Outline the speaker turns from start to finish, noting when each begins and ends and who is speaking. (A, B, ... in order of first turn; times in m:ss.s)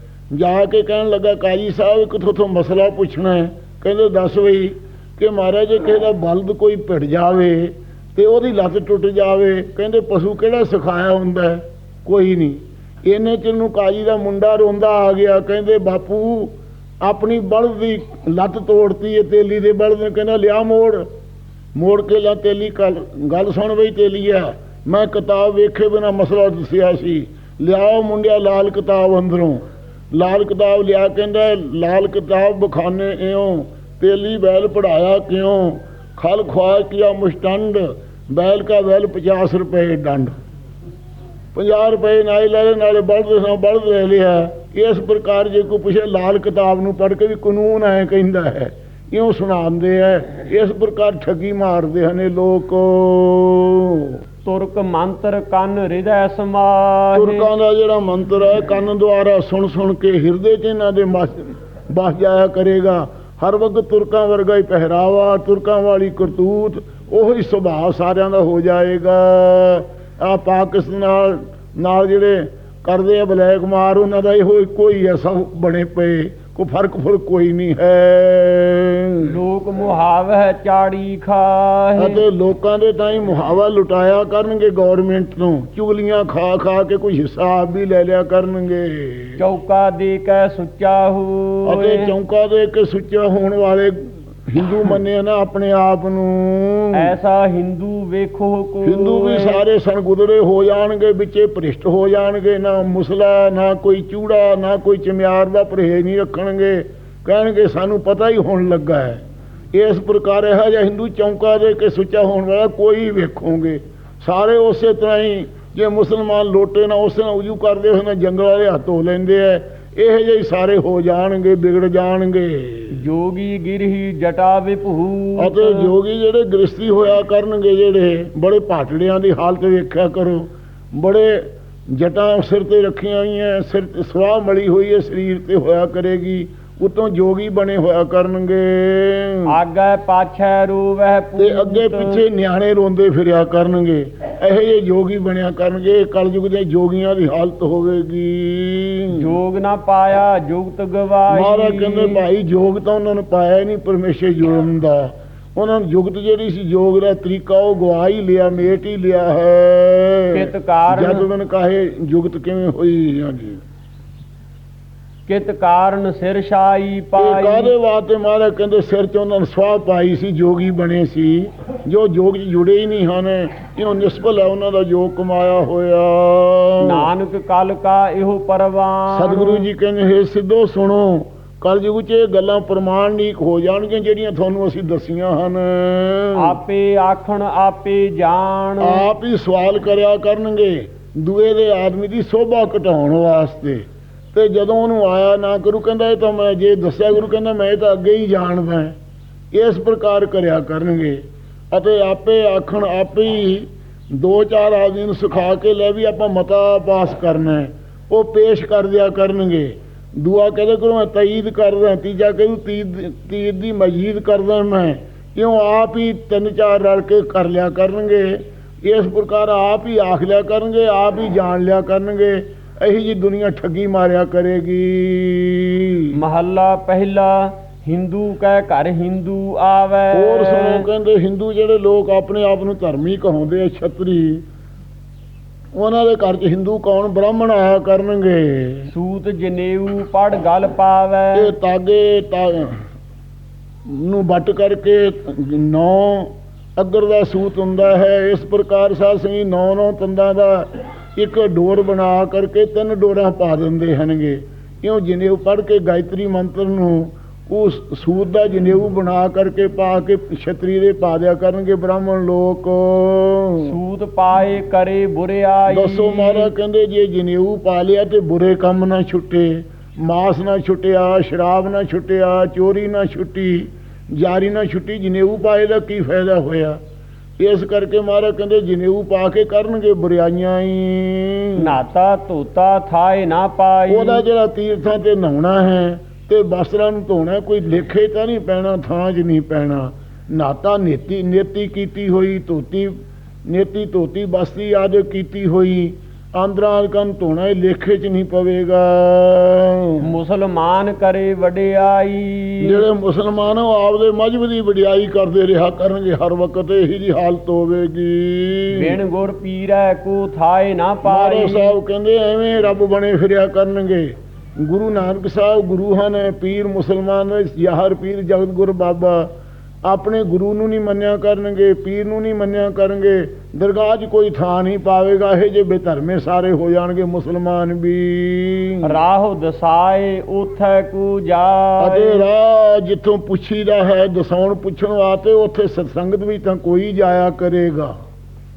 0:00.3-0:21.1 A
0:21.8-0:40.3 A
0:41.6-0:54.2 A
0:54.4-0:57.5 B
0:57.2-1:19.3 A
1:19.2-1:22.2 B
1:22.0-1:29.4 A
1:29.4-1:32.1 B
1:31.7-1:37.1 A
1:36.9-1:39.6 B
1:38.8-1:49.2 A
1:49.7-2:03.0 A
2:02.9-2:05.9 B
2:05.4-2:19.5 A
2:19.5-2:22.2 B
2:21.4-2:29.2 A
2:29.1-2:32.2 B
2:31.3-2:43.6 A
2:40.3-2:41.3 B
2:45.3-2:47.7 B
2:47.2-2:57.1 A
2:56.8-2:59.7 B
2:59.1-3:06.6 A
3:06.4-3:09.1 B
3:08.8-3:19.0 A
3:19.5-3:46.1 A
3:46.1-3:50.9 B
3:50.1-3:54.4 A
3:55.8-3:58.9 A
3:58.9-4:01.5 B
4:01.4-4:02.8 A
4:03.9-4:23.7 A
4:23.6-4:26.5 B
4:25.7-4:36.8 A
4:37.4-4:41.7 A
4:41.6-4:44.2 B
4:43.9-5:00.0 A
5:00.0-5:02.8 B
5:02.6-5:09.0 A
5:08.7-5:11.8 B
5:11.0-5:19.3 A
5:19.9-5:29.0 A
5:28.8-5:32.3 B
5:31.8-5:38.0 A